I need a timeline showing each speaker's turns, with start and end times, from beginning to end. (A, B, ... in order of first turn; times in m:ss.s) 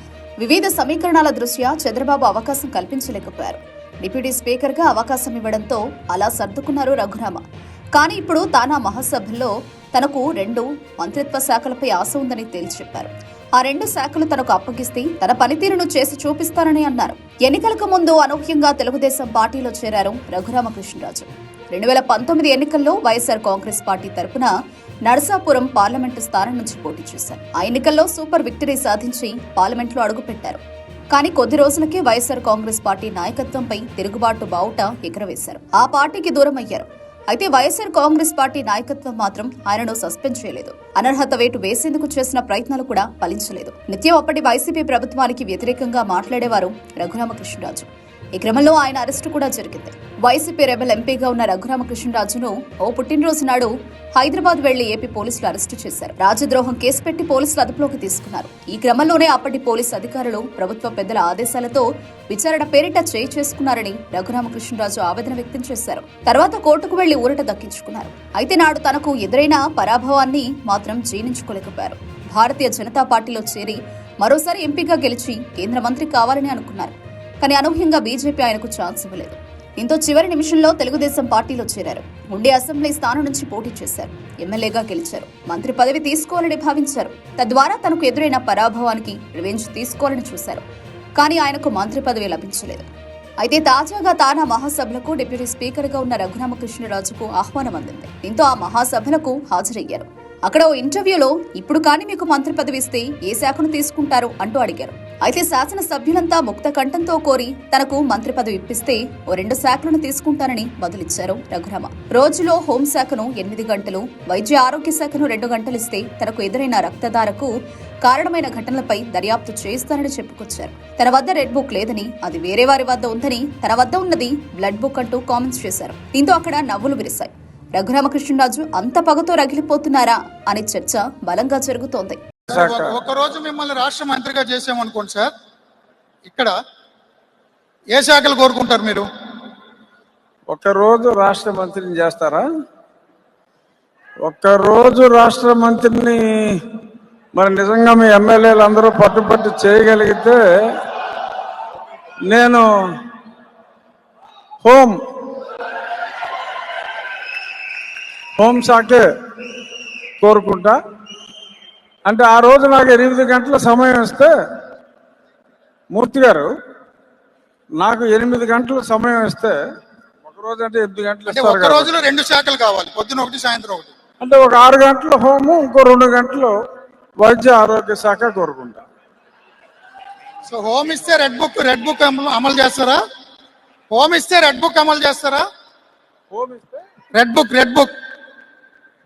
0:00.4-0:07.4 A
0:08.0-0:24.5 A
0:25.1-0:30.6 A
0:31.1-1:30.6 A
1:31.2-1:32.9 A
1:33.4-1:57.5 A
1:58.0-2:12.2 A
2:12.5-2:13.0 B
2:12.5-2:15.3 C
2:16.2-2:16.5 C
2:17.9-2:19.1 C
2:20.5-2:22.4 B
2:24.2-2:26.6 B
2:27.3-2:30.4 B
2:32.3-2:32.7 B
2:34.6-2:35.0 B
2:38.4-2:39.0 B
2:40.2-2:40.8 B
2:42.0-2:44.3 B
2:45.9-2:46.5 B
2:47.8-2:49.6 B
2:50.2-2:51.9 B
2:51.3-2:53.9 C
2:54.2-2:56.5 B
2:57.2-2:58.8 B
3:00.5-3:03.0 C
3:03.9-3:05.4 C
3:06.3-3:06.8 B
3:07.1-3:07.9 C